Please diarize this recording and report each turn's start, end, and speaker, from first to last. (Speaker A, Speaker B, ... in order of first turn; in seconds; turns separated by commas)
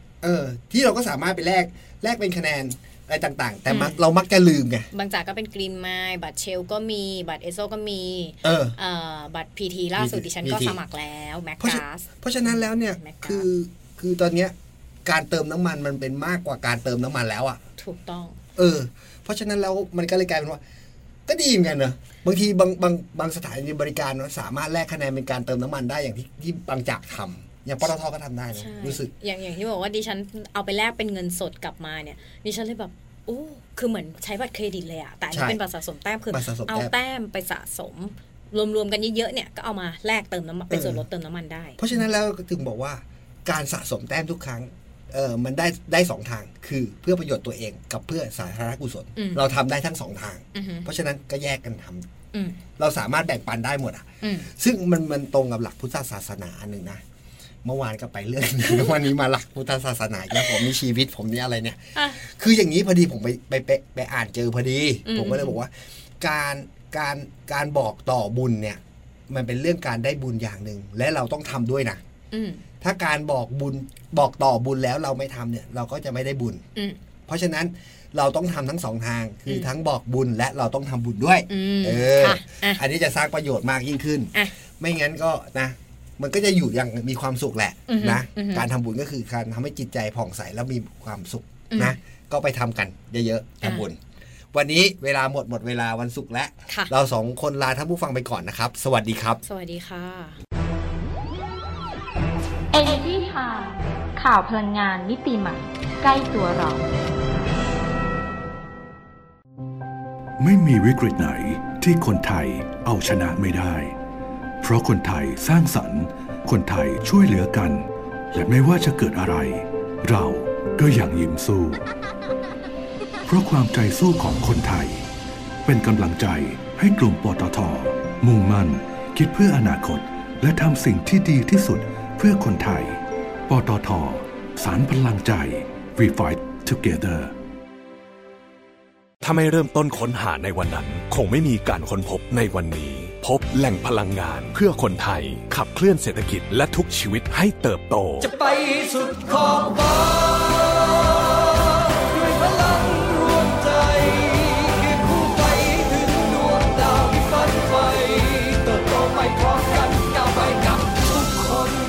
Speaker A: 0.2-4.9, Speaker B: 3.7-4.0, Speaker B: 4.9-13.4, Speaker A: 8.4-8.8, Speaker A: 9.9-10.8, Speaker A: 11.6-14.5, Speaker A: 15.0-17.6, Speaker B: 17.8-18.4, Speaker A: 18.6-20.6, Speaker A: 21.2-29.1, Speaker B: 28.5-42.0, Speaker A: 35.3-35.6, Speaker A: 36.3-36.9, Speaker A: 40.7-41.0, Speaker A: 41.8-52.1, Speaker B: 49.1-49.4, Speaker B: 50.5-50.9, Speaker B: 52.3-52.6, Speaker A: 52.8-57.0, Speaker B: 54.2-54.5, Speaker A: 57.6-72.0, Speaker B: 61.9-62.2, Speaker B: 65.0-65.6, Speaker B: 72.3-72.6, Speaker A: 72.8-76.6, Speaker A: 77.2-94.0, Speaker B: 79.5-79.7, Speaker B: 81.5-82.8, Speaker B: 87.9-88.6, Speaker B: 91.7-92.0, Speaker A: 94.5-99.4, Speaker B: 96.7-96.9, Speaker B: 99.4-100.4, Speaker C: 102.7-106.9, Speaker D: 110.4-113.9, Speaker D: 114.6-121.8, Speaker D: 123.2-125.0, Speaker D: 125.6-137.3, Speaker E: 139.5-148.2, Speaker F: 142.5-142.8, Speaker F: 143.4-145.4, Speaker F: 146.2-146.7, Speaker F: 147.4-148.3